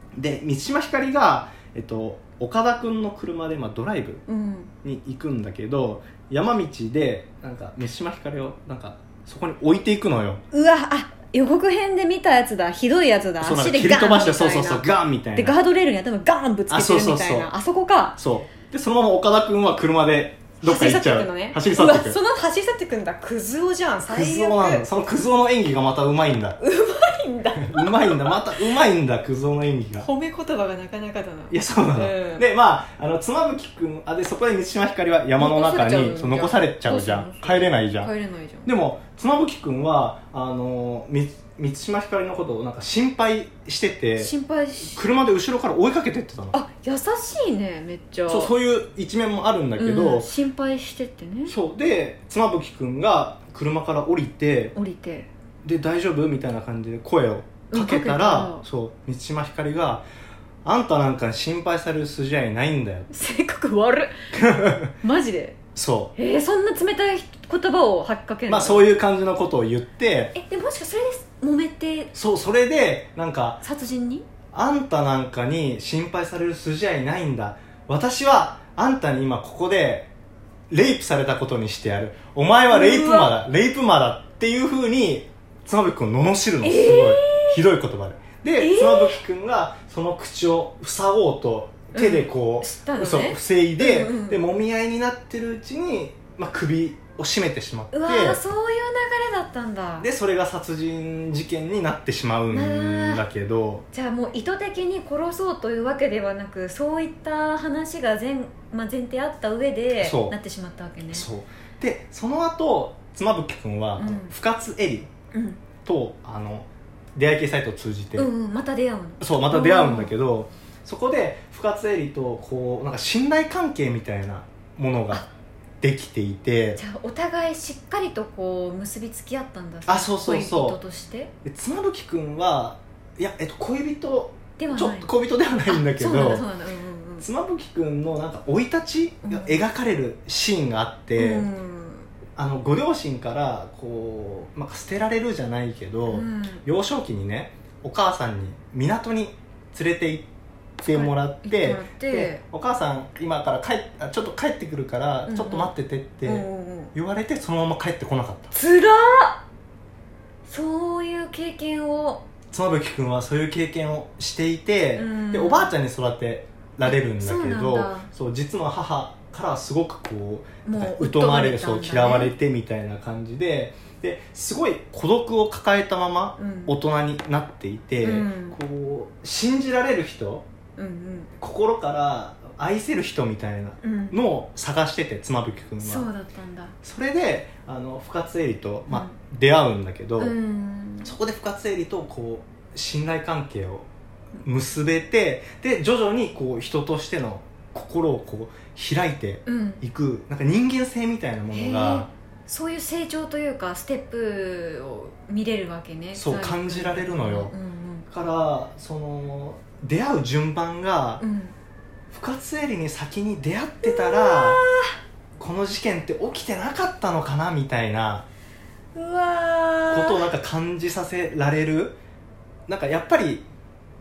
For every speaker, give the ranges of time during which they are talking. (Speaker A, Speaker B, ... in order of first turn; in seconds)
Speaker A: 0.1-4.2, 4.8-10.4, 13.4-15.6, 16.7-17.5, 18.2-22.2, 24.1-26.6, 27.6-30.1, 31.5-38.1, 38.6-44.3, 44.8-46.6, 48.3-50.3, 51.5-54.7, 55.6-60.1, 60.6-63.1, 64.3-64.9, 65.7-66.1, 68.5-70.3, 72.1-73.6, 74.5-80.1, 80.7-98.4, 100.0-103.8, 110.0-110.4, 111.1-115.1, 115.8-118.3, 119.2-125.2, 125.8-126.8, 129.9-130.8, 131.4-136.4, 137.2-141.5, 142.3-150.3, 150.8-158.5, 162.5-180.5, 181.4-186.1, 186.8-190.3, 191.0-193.9, 194.4-202.1, 206.1-207.5, 208.1-211.2, 212.1-214.6, 215.4-218.2, 219.9-222.0, 222.7-223.4
Speaker B: 4.3-4.7, 10.5-18.2, 20.6-24.9, 26.6-28.6, 30.0-32.5, 35.4-38.7, 44.2-45.0, 46.5-48.5, 49.8-51.5, 54.7-55.3, 57.7-58.6, 63.1-65.5, 66.2-68.8, 70.3-72.1, 73.6-74.2, 82.7-83.3, 86.6-87.6, 88.6-89.2, 91.9-94.4, 97.9-100.1, 102.5-103.2, 103.9-111.3, 114.0-114.3, 115.3-115.6, 118.2-120.1, 126.8-131.3, 134.6-135.1, 135.7-137.3, 139.2-139.6, 141.2-142.1, 146.1-146.6, 150.8-152.4, 155.2-155.7, 156.2-156.9, 158.5-159.4, 160.4-162.2, 164.9-165.7, 166.8-168.1, 170.6-172.3, 176.4-176.8, 178.0-178.6, 180.8-181.3, 183.8-184.2, 185.8-186.7, 188.9-189.2, 190.2-191.2, 199.4-199.8, 201.5-208.1, 211.2-211.5, 213.8-214.9, 218.9-220.2